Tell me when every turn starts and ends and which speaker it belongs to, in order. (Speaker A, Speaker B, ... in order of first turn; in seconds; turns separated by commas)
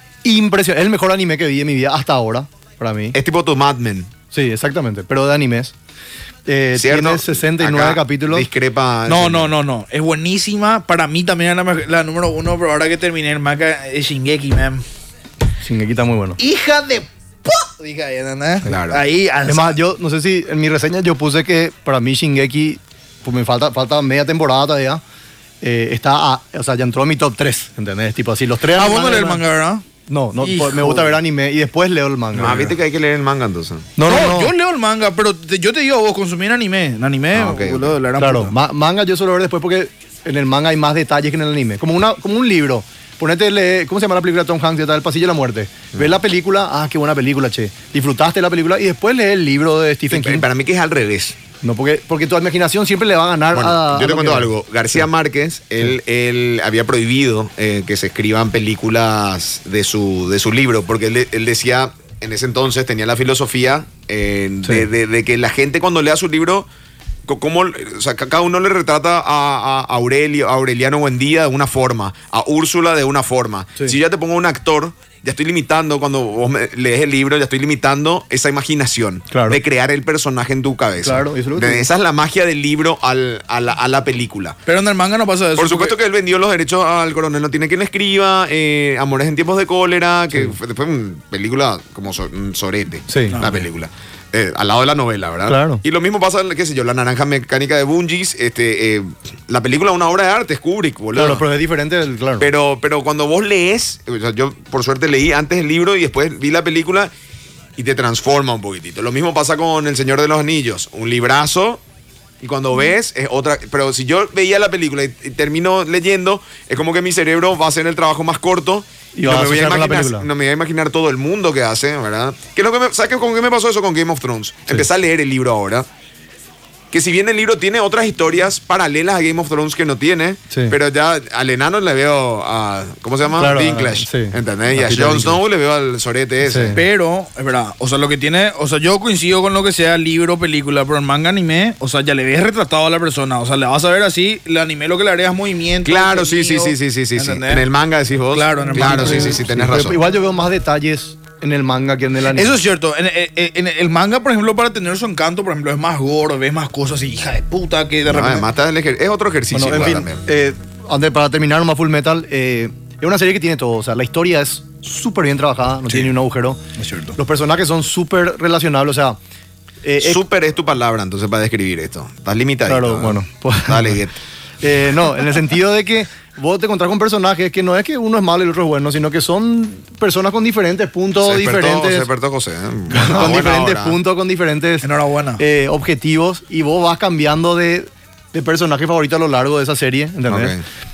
Speaker A: 0.2-3.2, Speaker B: 3.1-4.1, Speaker A: 4.3-5.7, Speaker A: 6.5-8.4, Speaker B: 6.7-9.5, Speaker C: 9.1-14.8, Speaker A: 15.6-16.4, Speaker C: 16.4-19.8, Speaker B: 18.6-19.0, Speaker A: 19.4-25.0, Speaker A: 25.6-29.4, Speaker C: 28.7-29.8, Speaker A: 30.1-32.7, Speaker C: 30.4-31.2, Speaker B: 32.3-33.9, Speaker A: 34.0-34.5, Speaker C: 34.0-38.5, Speaker B: 37.3-38.0, Speaker A: 38.2-50.4, Speaker B: 50.1-51.4, Speaker A: 51.6-54.5, Speaker B: 53.5-66.7, Speaker B: 67.2-84.6, Speaker A: 79.3-79.6, Speaker A: 81.0-81.9, Speaker C: 84.7-85.9, Speaker B: 85.5-101.4, Speaker A: 93.1-93.4, Speaker C: 93.3-93.6, Speaker A: 95.5-95.8, Speaker A: 101.1-102.5, Speaker B: 102.4-107.1, Speaker B: 107.8-111.8, Speaker B: 112.4-125.9, Speaker A: 119.2-120.3, Speaker B: 126.9-136.8, Speaker A: 130.5-130.8, Speaker A: 133.3-135.4, Speaker A: 136.4-136.8, Speaker C: 136.7-147.7, Speaker B: 145.8-150.0, Speaker C: 148.3-149.4, Speaker A: 148.7-152.6, Speaker C: 152.3-158.4, Speaker B: 158.1-160.2, Speaker A: 159.5-166.6, Speaker C: 166.8-167.2, Speaker A: 167.2-169.2, Speaker A: 169.8-170.2, Speaker B: 170.0-174.2, Speaker A: 172.7-174.0, Speaker A: 174.6-182.1, Speaker B: 181.2-184.0, Speaker A: 182.9-184.9, Speaker C: 184.8-185.4, Speaker A: 185.4-190.6, Speaker B: 190.3-190.6